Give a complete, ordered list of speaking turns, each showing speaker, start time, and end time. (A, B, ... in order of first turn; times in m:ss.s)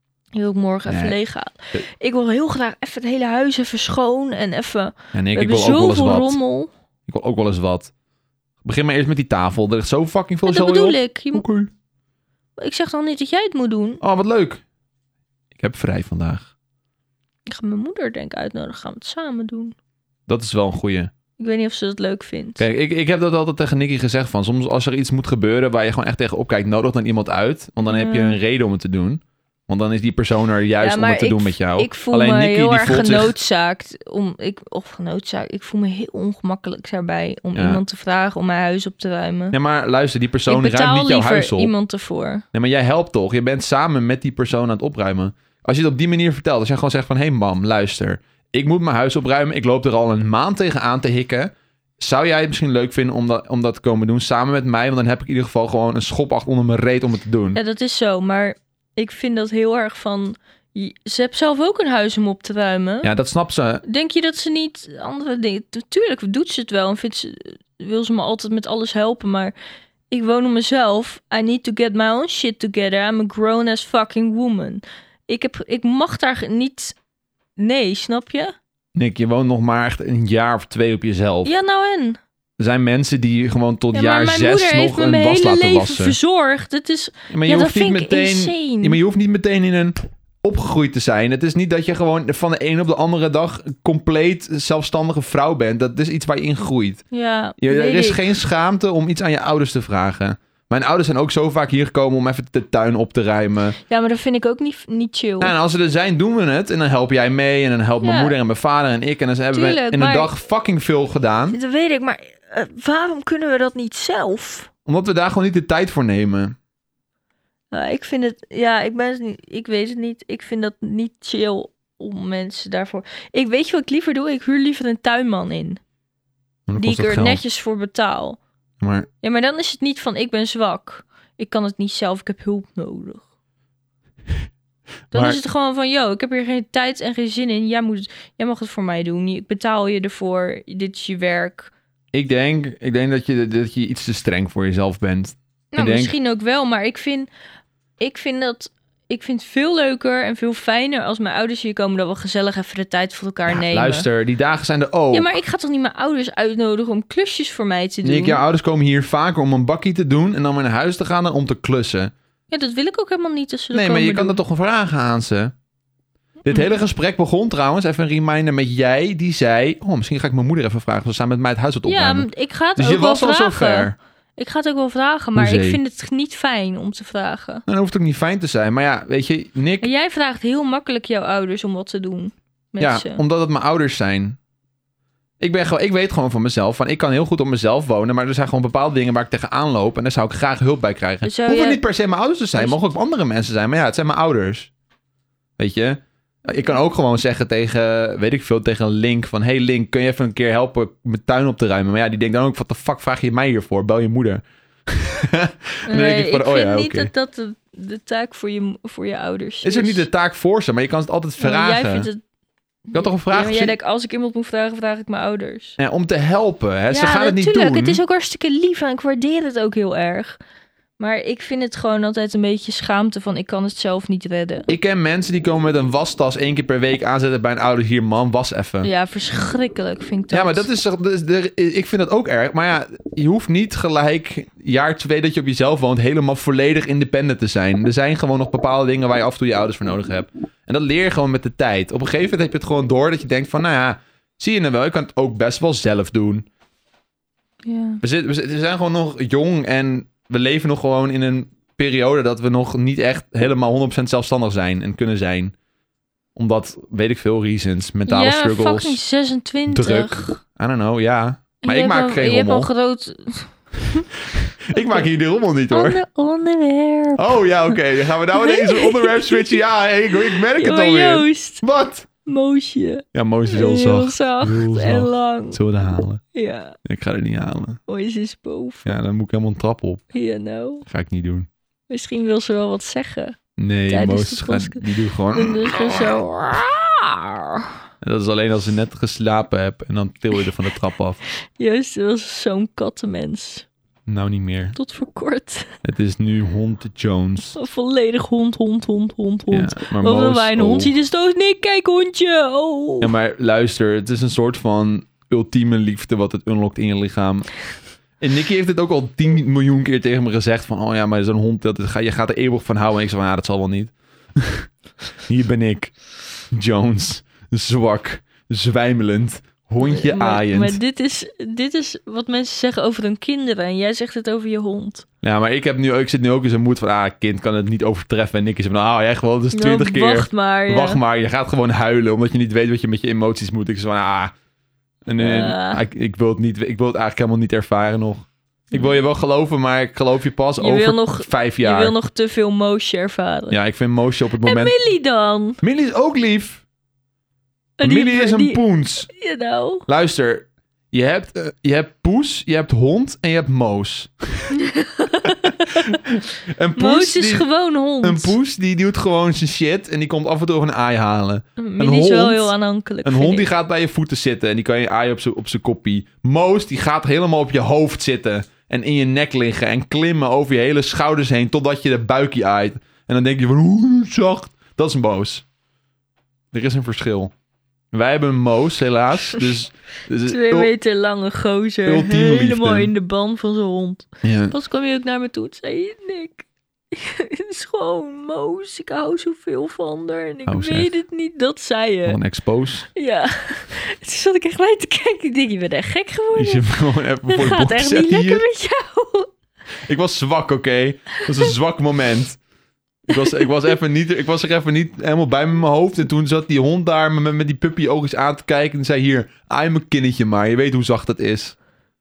0:00.3-0:06.7 A
0:00.9-0:01.2 B
0:05.1-0:06.4 B
0:07.1-0:07.9 B
0:08.6-0:11.7 B
0:10.4-0:11.4 A
0:12.6-0:14.0 A
0:14.0-0:14.6 B
0:15.5-0:16.5 B
0:17.5-0:19.7 A
0:20.3-0:21.1 B
0:21.4-0:22.6 A
0:22.6-0:33.3 B
0:27.8-0:28.4 A
0:30.8-0:39.6 A
0:37.5-0:37.8 B
0:39.5-0:41.7 B
0:40.4-0:42.4 A
0:42.5-0:57.6 B
0:57.5-1:03.1 A
1:03.0-1:03.8 B
1:03.8-1:09.5 A
1:10.1-1:17.0 A
1:17.6-1:18.5 A
1:18.9-1:21.5 B
1:21.4-1:22.2 A
1:22.6-1:26.2 B
1:23.9-1:29.0 A
1:27.3-1:37.0 B
1:37.1-1:38.2 A
1:37.6-1:43.8 B
1:43.9-1:45.5 A
1:45.4-1:51.6 B
1:48.0-1:48.4 A
1:49.5-1:50.3 A
1:51.5-1:54.7 A
1:54.9-1:56.6 B
1:57.7-2:05.8 A
2:06.7-2:07.4 B
2:06.7-2:08.4 A
2:08.8-2:09.1 B
2:09.2-2:13.2 A
2:15.1-2:15.4 B
2:15.1-2:21.7 A
2:22.1-2:26.1 B
2:25.7-2:27.3 A
2:28.0-2:34.0 A
2:33.5-2:35.3 B
2:35.1-2:38.4 A
2:38.0-2:42.1 B
2:42.5-2:44.4 A
2:43.7-2:45.5 B
2:46.4-2:54.0 B
2:51.8-2:57.6 A
2:55.3-2:55.8 B
2:57.7-2:59.9 B
2:59.8-3:03.2 A
3:02.8-3:04.4 B
3:05.4-3:14.7 B
3:11.2-3:11.8 A
3:15.6-3:27.1 B
3:25.9-3:30.1 A
3:29.6-3:32.1 B
3:31.4-3:32.2 A
3:32.9-3:35.8 A
3:32.9-3:33.7 B
3:35.8-3:38.0 B
3:36.9-3:40.4 A
3:41.0-3:44.7 A
3:44.7-3:48.9 B
3:48.8-3:50.7 A
3:50.3-4:06.4 B
4:07.6-4:08.0 A
4:08.0-4:15.5 B
4:16.3-4:19.0 B
4:18.1-4:20.4 A
4:19.7-4:22.7 B
4:21.6-4:24.1 A
4:24.3-4:26.0 B
4:24.7-4:25.1 A
4:25.7-4:27.8 A
4:27.2-4:32.1 B
4:28.3-4:29.6 A
4:30.1-4:31.6 A
4:32.2-4:35.6 A
4:33.1-4:36.2 B
4:36.3-4:36.8 A
4:36.8-4:37.8 B
4:37.9-4:39.0 A
4:38.8-4:40.0 B
4:40.1-4:40.9 A
4:40.9-4:41.5 B
4:41.9-4:43.4 A
4:43.6-4:46.2 B
4:43.9-4:47.7 A
4:48.0-4:51.2 B
4:51.6-4:53.6 A
4:54.1-4:54.8 B
4:54.7-4:55.7 A
4:55.8-4:57.6 B
4:57.5-5:03.1 A
4:59.5-5:00.9 B
5:03.0-5:07.7 B
5:08.2-5:14.7 B
5:15.2-5:20.8 B
5:19.8-5:25.0 A
5:25.2-5:34.3 B
5:29.5-5:31.0 A
5:35.0-5:41.9 B
5:35.1-5:35.8 A
5:40.6-5:43.6 A
5:43.5-5:44.7 B
5:44.4-5:45.6 A
5:45.6-5:46.6 B
5:47.8-5:49.8 A
5:47.8-5:49.1 B
5:49.9-5:54.6 B
5:54.5-5:56.0 A
5:55.3-5:57.5 B
5:56.8-5:58.3 A
5:58.0-6:02.5 B
6:01.6-6:03.5 A
6:03.0-6:15.4 B
6:16.5-6:17.3 B
6:17.9-6:20.7 B
6:20.2-6:32.2 A
6:21.8-6:22.9 B
6:24.2-6:24.5 B
6:30.4-6:30.9 B
6:32.0-6:32.9 B
6:32.9-6:36.7 A
6:36.3-6:38.4 B
6:37.2-6:39.3 A
6:39.8-6:42.4 B
6:43.1-6:51.6 B
6:43.2-6:43.5 A